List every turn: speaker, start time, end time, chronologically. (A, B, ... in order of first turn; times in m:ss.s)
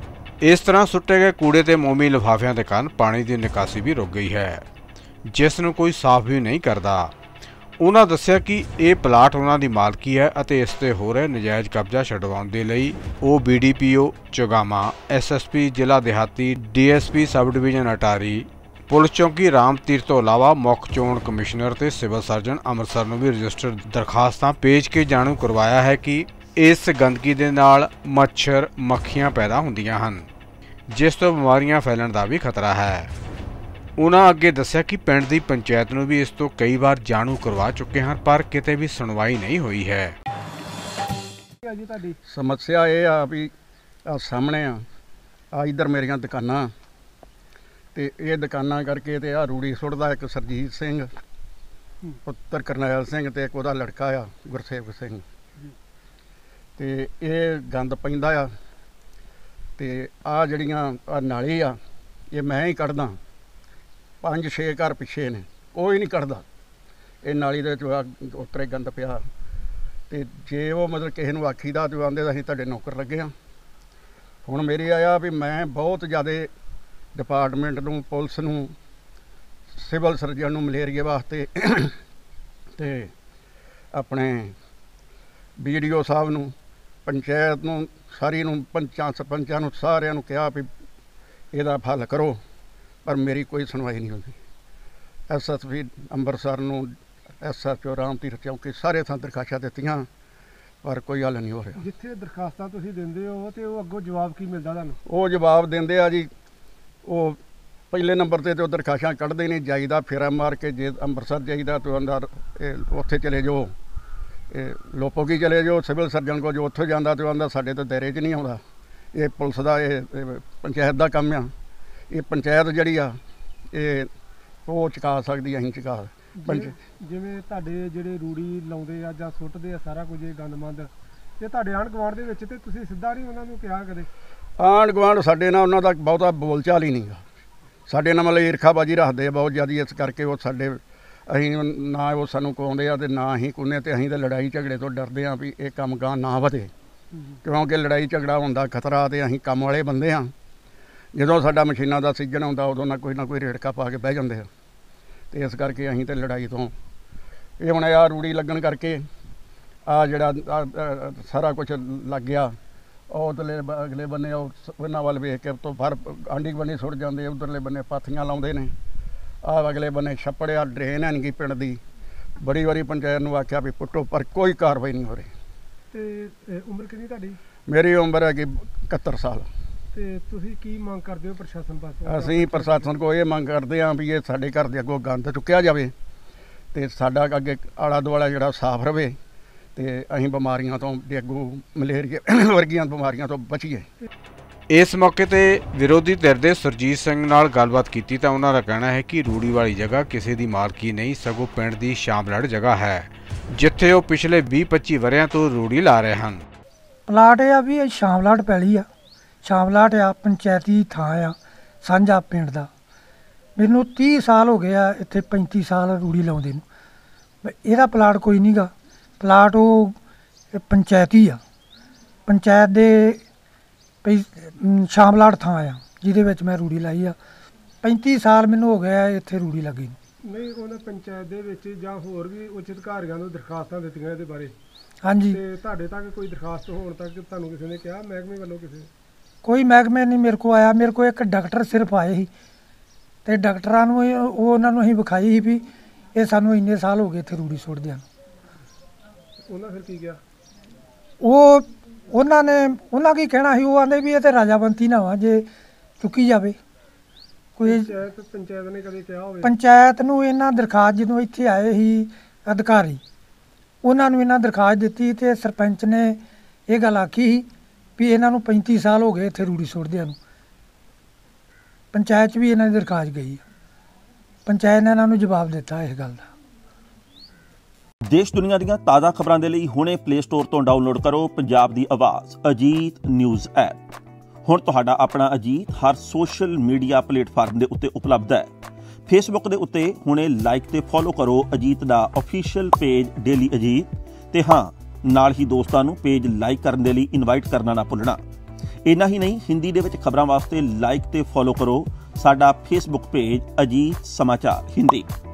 0:00.4-0:04.6 A
0:05.3-0:07.1 A
0:07.8-0:30.3 A
0:30.9-0:33.1 A
0:34.0-0:40.1 A
0:41.6-0:42.2 B
0:42.3-0:43.5 C
0:44.0-0:44.8 C
0:45.5-0:46.7 C
0:47.9-0:51.1 C
0:52.2-0:55.2 C
0:56.8-0:58.5 C
0:59.8-1:01.8 C
1:02.3-1:03.2 C
1:04.2-1:06.4 C
1:07.2-1:09.2 C
1:10.1-1:13.3 C
1:14.4-1:16.5 C
1:17.1-1:18.7 C
1:19.7-1:22.0 C
1:22.8-1:23.1 C
1:23.9-1:24.5 C
1:25.6-1:26.5 C
1:27.0-1:30.7 C
1:31.5-1:32.4 C
1:33.0-1:34.4 C
1:35.3-1:40.1 C
1:40.8-1:41.8 C
1:41.8-1:45.0 B
1:45.0-1:46.3 C
1:47.0-1:47.4 C
1:47.9-1:53.7 C
1:54.5-1:58.6 C
1:59.1-2:01.5 C
2:02.1-2:03.2 C
2:03.7-2:04.1 C
2:04.6-2:06.7 C
2:06.4-2:14.1 B
2:14.6-2:17.2 C
2:17.9-2:26.7 C
2:27.4-2:30.3 C
2:31.1-2:34.5 C
2:35.3-2:36.7 C
2:37.6-2:39.0 C
2:39.9-2:42.6 C
2:43.1-2:48.7 C
2:49.4-2:51.8 C
2:52.4-2:55.3 C
2:55.9-2:57.4 B
2:57.7-2:59.5 C
2:59.9-3:02.9 B
3:02.0-3:05.9 C
3:06.7-3:09.2 C
3:09.7-3:13.9 C
3:14.7-3:26.4 A
3:27.1-3:28.9 D
3:29.4-3:32.7 D
3:33.6-3:36.6 D
3:37.4-3:40.0 D
3:40.5-3:41.4 D
3:42.2-3:43.2 D
3:44.0-3:47.2 D
3:47.8-3:50.0 D
3:50.2-3:54.5 B
3:55.0-3:55.4 D
3:55.3-3:58.9 B
3:59.4-4:02.3 D
4:03.2-4:08.0 D
4:09.4-4:10.2 B
4:11.2-4:15.4 D
4:16.0-4:16.6 D
4:17.6-4:17.9 D
4:17.6-4:19.5 B
4:19.4-4:23.0 D
4:23.8-4:30.2 D
4:31.9-4:33.4 D
4:34.4-4:36.3 D
4:38.1-4:43.8 E
4:44.4-4:48.5 E
4:49.1-4:58.2 E
4:58.8-5:05.1 E